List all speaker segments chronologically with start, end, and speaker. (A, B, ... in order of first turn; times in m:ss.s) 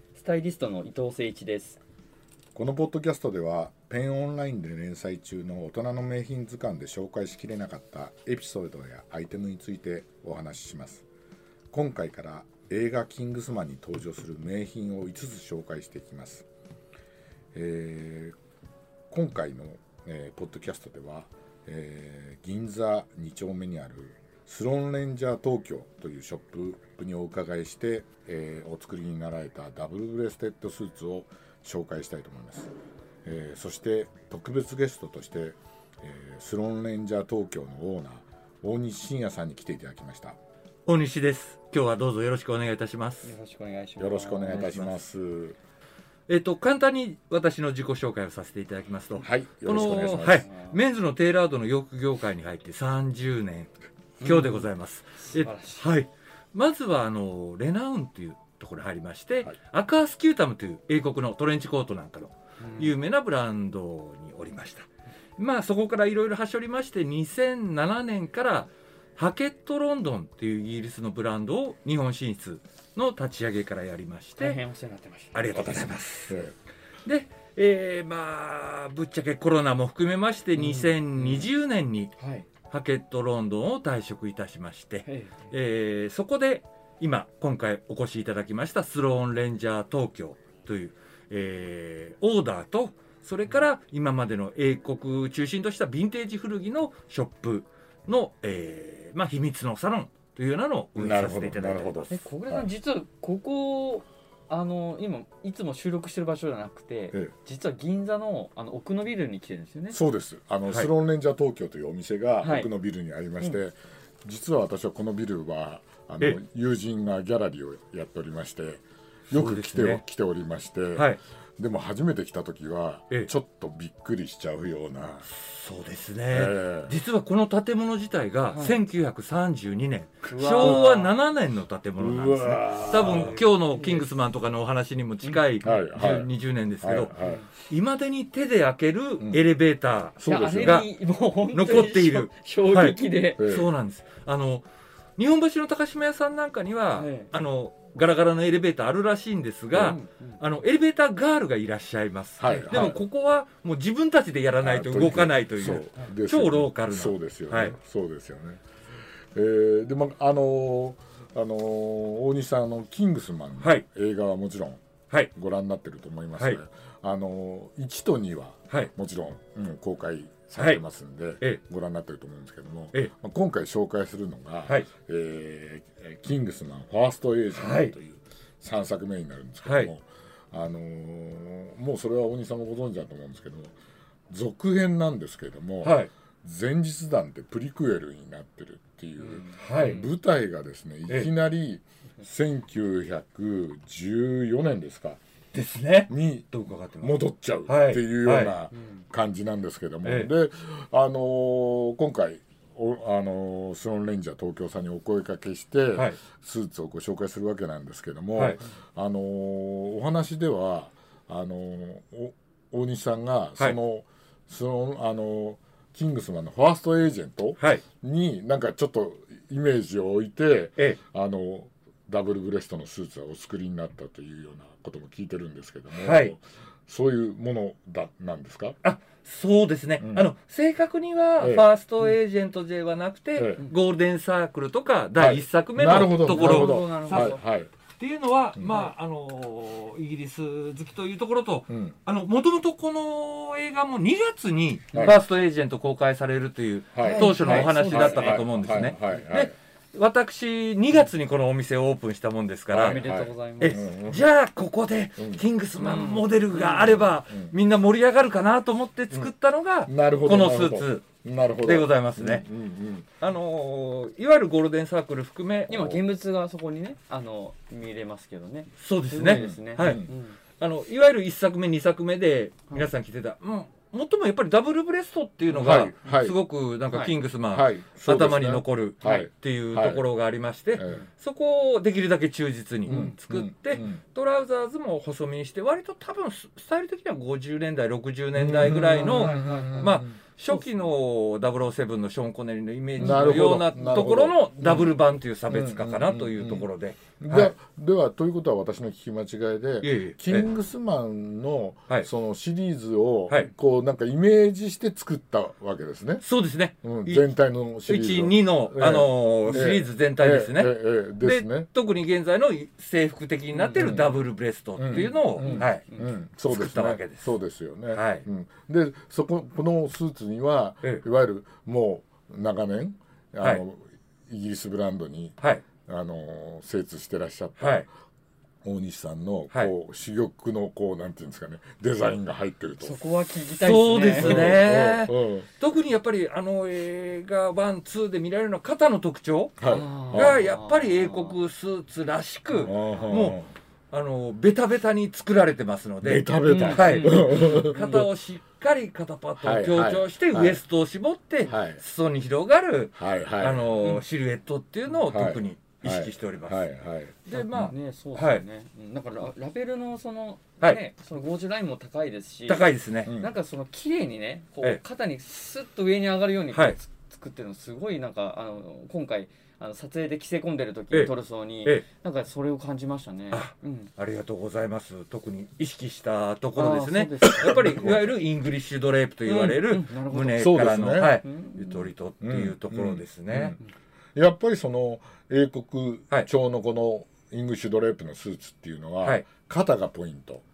0:00.2-0:01.8 A
0:02.6-0:11.0 B
0:11.7-0:16.5 B
0:17.5-0:18.4 B
0:19.1-0:32.7 B
0:33.2-0:40.4 B
0:40.9-0:43.3 C
0:43.2-0:45.0 A
0:44.0-0:45.6 B
0:46.3-0:53.7 C
0:49.2-0:50.5 B
0:50.4-0:50.8 A
0:54.2-0:54.6 A
0:54.2-1:04.9 C
0:55.2-0:55.8 A
1:02.6-1:03.0 A
1:05.4-1:14.6 C
1:14.4-1:15.4 A
1:15.3-1:16.4 C
1:15.5-1:16.6 B
1:17.0-1:22.1 C
1:20.6-1:21.5 A
1:22.2-1:22.5 A
1:22.7-1:42.1 C
1:25.1-1:25.4 A
1:41.0-1:42.7 B
1:42.1-1:50.0 A
1:49.9-2:05.3 B
1:52.4-1:52.7 A
1:59.3-2:00.0 C
2:05.3-2:17.1 C
2:06.3-2:07.0 B
2:08.5-2:08.8 A
2:10.3-2:11.1 A
2:10.6-2:10.9 B
2:12.0-2:13.4 B
2:12.8-2:14.1 A
2:15.6-2:16.3 B
2:16.8-2:17.4 B
2:17.2-2:17.5 A
2:17.6-2:24.6 C
2:20.2-2:20.8 B
2:20.3-2:23.4 A
2:23.4-2:23.7 B
2:25.2-2:37.8 C
2:27.0-2:27.3 A
2:29.7-2:30.0 B
2:29.8-2:30.4 A
2:32.4-2:33.0 B
2:32.5-2:32.9 A
2:34.6-2:38.6 B
2:39.3-2:44.8 B
2:45.3-3:03.7 B
2:57.6-2:57.9 C
2:59.7-2:59.9 C
3:04.3-3:15.2 B
3:05.8-3:06.1 C
3:09.5-3:10.1 C
3:15.5-3:18.5 C
3:16.1-3:48.8 B
3:20.0-3:20.3 C
3:37.6-3:37.8 C
3:45.9-3:46.3 C
3:48.8-3:57.4 C
3:50.0-3:50.3 B
3:51.4-3:51.7 B
3:53.4-3:53.6 B
3:55.2-3:57.7 B
3:56.2-3:57.4 A
3:58.0-4:13.0 C
4:01.7-4:02.0 B
4:04.9-4:05.2 B
4:06.9-4:09.5 B
4:07.0-4:08.5 A
4:12.7-4:14.2 B
4:12.7-4:13.8 A
4:13.6-4:22.4 C
4:15.2-4:15.4 B
4:15.8-4:17.0 A
4:17.3-4:17.5 B
4:19.9-4:23.1 B
4:23.2-4:26.0 C
4:25.7-4:30.4 A
4:28.8-4:57.5 C
4:29.3-4:30.1 B
4:35.5-4:36.1 A
4:35.6-4:36.4 B
4:37.5-4:40.0 B
4:40.8-4:41.0 B
4:42.9-4:43.2 A
4:42.9-4:44.0 B
4:48.4-4:50.1 B
4:48.7-4:50.0 A
4:53.0-4:54.9 B
4:53.0-4:53.4 A
4:55.5-5:06.2 B
4:59.8-5:00.5 C
5:06.2-5:07.3 C
5:06.8-5:11.7 B
5:07.9-5:15.9 C
5:13.5-5:14.1 A
5:13.8-5:14.1 B
5:14.8-5:27.9 B
5:14.9-5:16.1 A
5:16.5-5:17.4 C
5:17.9-5:18.2 C
5:27.6-5:27.8 C
5:28.6-5:33.0 B
5:32.8-5:34.6 A
5:33.5-5:43.4 C
5:34.1-5:35.5 B
5:39.6-5:40.4 B
5:39.7-5:41.4 A
5:42.6-5:43.5 B
5:43.9-5:56.7 C
5:46.0-5:48.1 B
5:46.5-5:48.0 A
5:49.4-5:50.6 B
5:51.5-5:51.8 B
5:53.0-5:54.0 B
5:55.1-5:57.2 B
5:57.2-5:58.4 C
5:57.3-6:13.9 A
6:02.5-6:03.1 C
6:03.0-6:03.3 B
6:13.3-6:23.6 C
6:16.6-6:18.0 A
6:19.3-6:21.9 A
6:20.3-6:21.2 B
6:22.2-6:23.6 B
6:24.2-6:30.4 B